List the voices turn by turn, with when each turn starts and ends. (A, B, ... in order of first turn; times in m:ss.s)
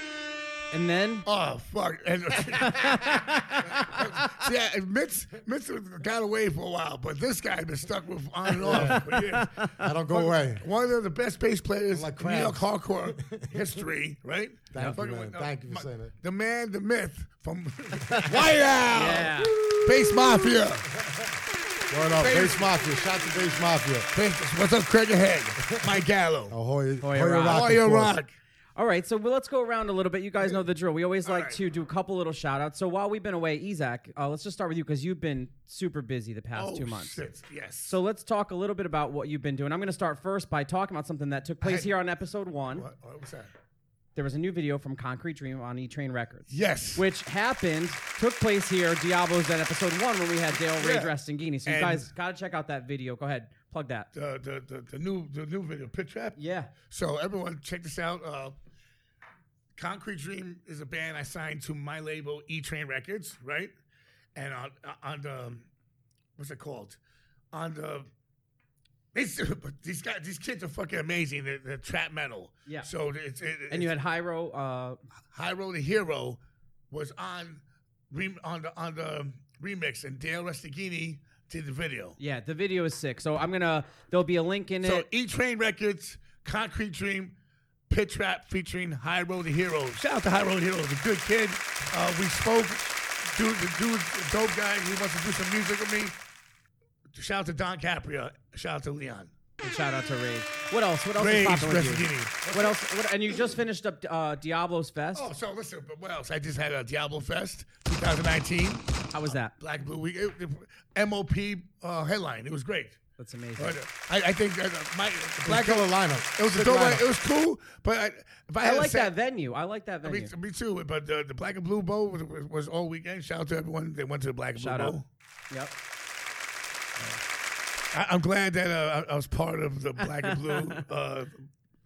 0:00.7-0:01.3 A
0:01.3-0:20.9 B
0:02.5-0:04.3 A
0:08.6-0:09.1 C
0:08.8-0:09.4 A
0:09.8-0:10.7 C
0:11.9-0:13.6 C
0:14.7-0:16.1 C
0:18.9-0:19.6 A
0:21.9-0:24.1 C
0:22.2-0:22.7 B
0:24.1-0:26.6 B
0:26.5-0:28.2 C
0:27.0-0:27.7 A
0:27.5-0:28.3 B
0:28.8-0:37.2 A
0:31.3-0:31.6 B
0:36.6-0:38.0 B
0:37.9-0:42.9 A
0:41.6-0:42.0 B
0:42.7-0:43.5 B
0:44.2-0:54.1 A
0:46.5-0:47.0 B
0:50.7-0:51.1 B
0:51.7-0:52.1 B
0:54.1-0:56.4 B
0:56.4-0:56.7 A
0:56.9-0:58.6 B
0:59.8-1:03.7 B
1:04.4-1:05.7 B
1:06.4-1:07.0 B
1:07.5-1:08.1 B
1:09.1-1:13.9 B
1:13.7-1:15.0 A
1:15.3-1:16.4 B
1:16.9-1:22.2 B
1:22.2-1:25.1 A
1:24.8-1:27.4 B
1:27.9-1:36.2 B
1:37.1-1:39.3 B
1:39.6-1:45.2 A
1:41.2-1:42.8 B
1:45.2-1:53.0 B
1:49.1-1:49.5 A
1:53.2-1:53.8 A
1:53.6-1:59.1 B
1:55.4-1:57.1 C
1:58.6-2:00.3 A
2:00.0-2:05.1 B
2:04.6-2:05.0 A
2:07.9-2:11.4 B
2:10.2-2:10.8 A